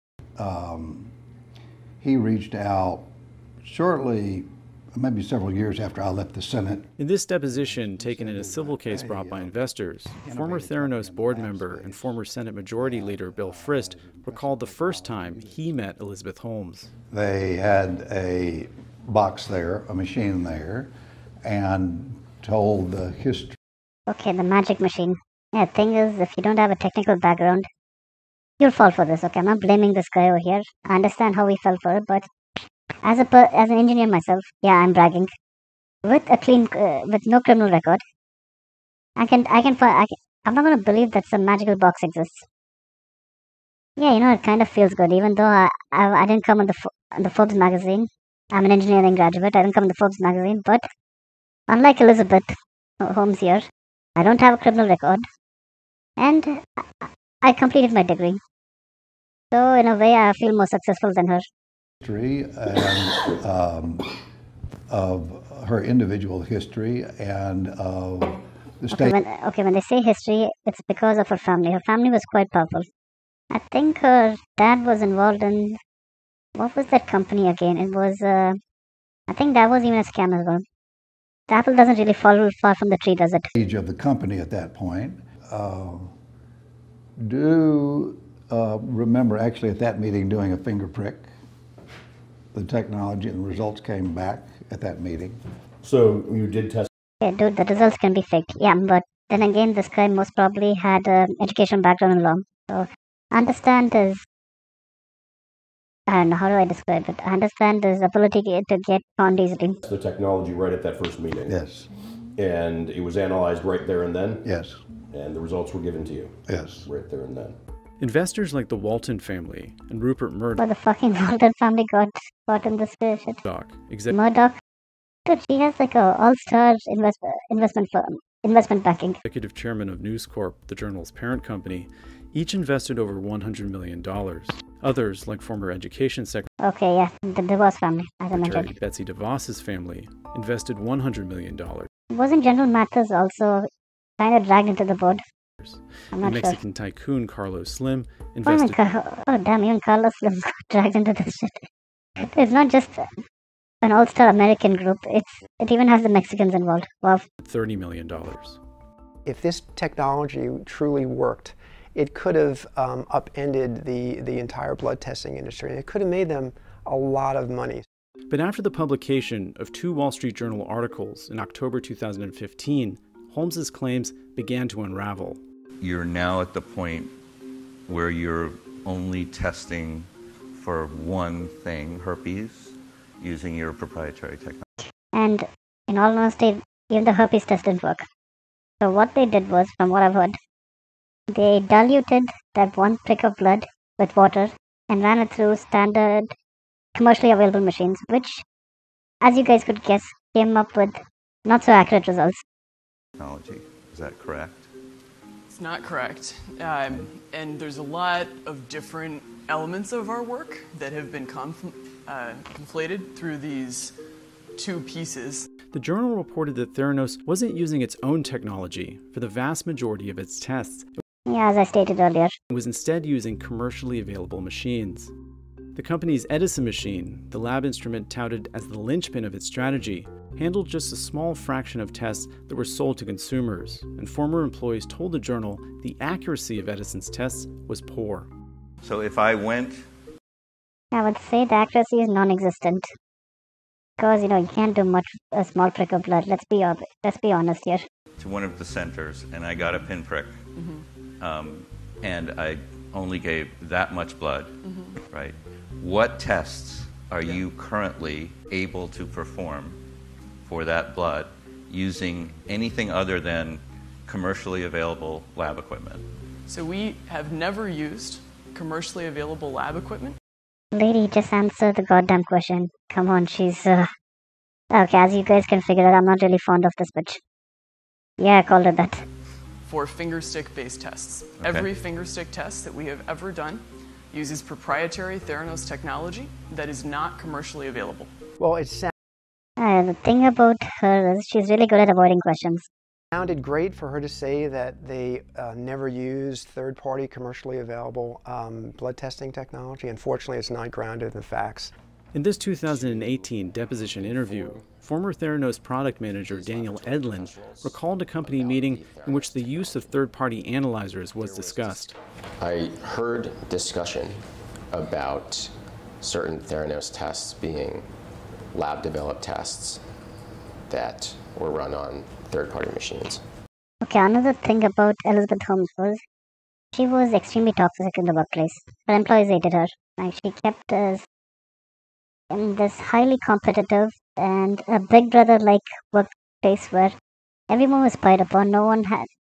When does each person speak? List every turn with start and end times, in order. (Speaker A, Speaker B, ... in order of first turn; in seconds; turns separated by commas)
Speaker A: 0.4-1.1, Speaker A: 2.0-3.1, Speaker A: 3.6-6.9, Speaker B: 7.0-16.9, Speaker A: 7.4-15.8, Speaker A: 17.1-20.9, Speaker A: 21.4-23.6, Speaker C: 24.1-27.7, Speaker C: 28.6-32.2, Speaker C: 33.0-35.3, Speaker C: 36.0-38.0, Speaker C: 39.2-42.4, Speaker C: 44.0-50.8, Speaker C: 51.7-53.6, Speaker C: 54.2-55.2, Speaker C: 56.2-58.4, Speaker C: 59.5-61.4, Speaker A: 62.0-64.2, Speaker A: 64.9-69.2, Speaker C: 68.9-72.9, Speaker C: 73.5-75.8, Speaker C: 76.6-78.6, Speaker C: 79.3-80.6, Speaker C: 81.5-83.5, Speaker A: 83.5-86.1, Speaker A: 87.2-91.3, Speaker A: 92.5-95.4, Speaker D: 95.8-96.9, Speaker C: 97.2-104.2, Speaker C: 106.1-109.8, Speaker D: 109.8-111.6, Speaker A: 111.5-111.9, Speaker D: 112.4-114.5, Speaker A: 114.4-114.8, Speaker D: 115.1-117.5, Speaker A: 116.5-116.9, Speaker B: 118.0-120.6, Speaker C: 120.6-123.4, Speaker B: 123.4-124.2, Speaker C: 124.1-124.5, Speaker C: 125.2-129.2, Speaker B: 129.2-136.5, Speaker C: 136.6-138.7, Speaker B: 138.3-141.9, Speaker C: 142.1-143.7, Speaker C: 144.2-145.2, Speaker B: 145.6-148.8, Speaker C: 146.1-146.5, Speaker C: 148.4-151.6, Speaker C: 152.2-153.1, Speaker C: 153.8-157.2, Speaker B: 157.4-158.6, Speaker E: 159.2-167.8, Speaker B: 168.3-175.4, Speaker F: 175.8-177.1, Speaker F: 177.9-184.6, Speaker C: 185.0-188.1, Speaker C: 188.8-190.4, Speaker C: 191.3-196.3, Speaker C: 196.9-198.4, Speaker C: 199.2-202.4, Speaker F: 203.2-204.7, Speaker G: 205.5-213.9, Speaker G: 214.5-215.5, Speaker B: 215.7-221.0, Speaker C: 221.3-222.3, Speaker B: 222.5-225.1, Speaker B: 225.7-238.3, Speaker F: 238.8-239.8, Speaker C: 240.9-242.9, Speaker C: 244.0-247.8, Speaker F: 248.2-250.4, Speaker G: 250.5-250.8, Speaker F: 251.2-259.8, Speaker G: 254.6-255.0, Speaker F: 260.4-266.0, Speaker G: 266.5-270.2, Speaker C: 270.7-273.9, Speaker C: 274.7-277.2, Speaker C: 278.2-279.0, Speaker G: 279.6-288.1, Speaker F: 281.4-281.7, Speaker E: 288.4-288.9, Speaker C: 289.6-292.6, Speaker E: 293.1-301.7, Speaker B: 302.1-312.0, Speaker H: 303.9-304.6, Speaker H: 306.2-310.0, Speaker H: 311.1-311.9, Speaker H: 312.4-314.2, Speaker H: 314.7-317.9, Speaker H: 318.5-319.8, Speaker H: 320.7-323.2, Speaker C: 323.8-326.0, Speaker C: 326.7-331.0, Speaker C: 332.3-336.9, Speaker C: 337.5-339.1